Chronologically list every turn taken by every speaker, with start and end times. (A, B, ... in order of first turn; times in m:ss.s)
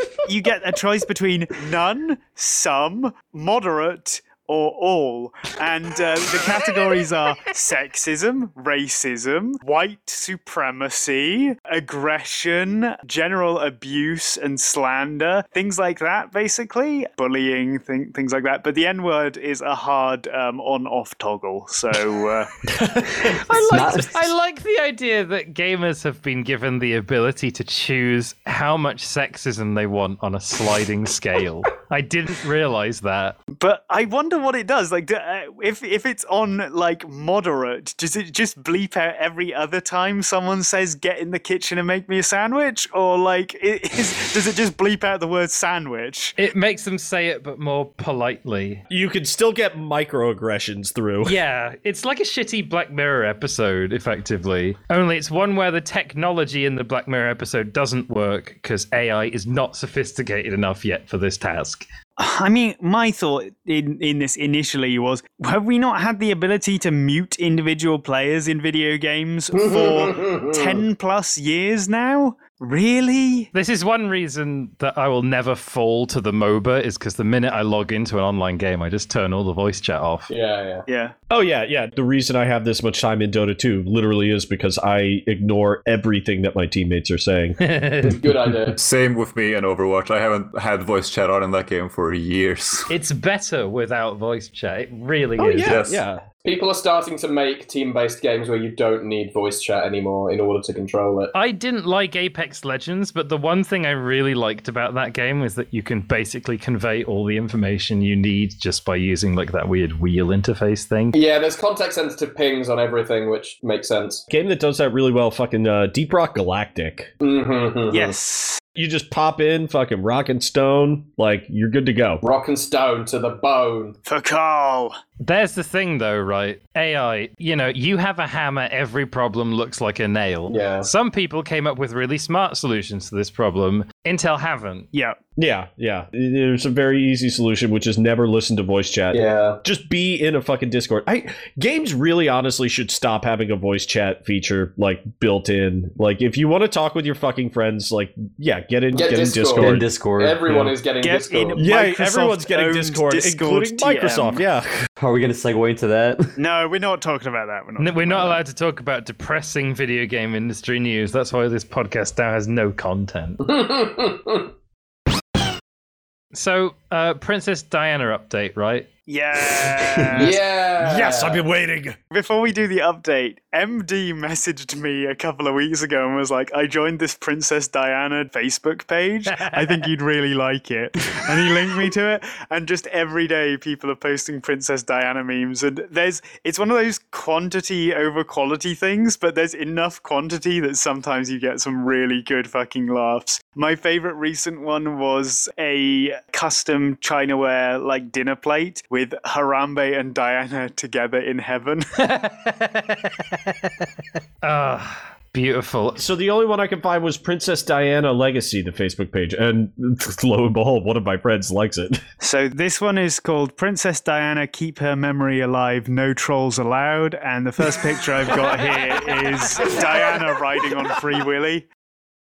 0:00.3-0:22.5 A
0:22.7-0:24.1 B
0:23.3-0:33.4 C
0:23.7-0:24.2 D
0:33.6-0:46.4 A
0:46.4-0:48.8 C
0:48.9-0:51.4 B
0:51.2-1:01.9 C
1:02.2-1:13.5 A
1:09.5-1:10.8 E
1:13.5-1:20.3 C
1:20.3-1:20.9 E
1:20.9-1:21.1 A
1:21.3-1:27.6 B
1:27.6-1:28.3 C
1:28.1-1:28.8 E
1:28.7-1:32.9 F
1:32.9-1:35.8 C
1:35.4-1:36.2 B
1:35.6-1:36.0 F
1:36.4-1:41.3 E
1:41.3-1:51.2 C
1:51.1-1:54.2 E
1:54.3-1:57.1 B
1:57.2-1:58.1 E
1:57.9-1:58.6 A
1:58.8-2:02.2 B
2:02.2-2:04.0 E
2:04.1-2:05.0 A
2:05.2-2:14.9 C
2:10.5-2:10.9 E
2:14.9-2:15.2 A
2:15.4-2:30.0 B
2:19.1-2:19.6 E
2:28.9-2:31.7 E
2:29.6-2:30.8 D
2:31.0-2:34.4 A
2:31.6-2:34.7 B
2:35.0-2:36.4 D
2:36.4-2:38.4 A
2:37.8-2:43.4 C
2:43.4-2:44.5 E
2:46.3-2:48.9 C
2:49.1-2:50.4 A
2:50.1-2:52.0 B
2:50.1-2:51.4 E
2:52.1-3:21.9 A
3:22.0-3:23.7 C
3:24.4-3:26.0 C
3:26.0-3:32.0 B
3:32.2-3:41.7 A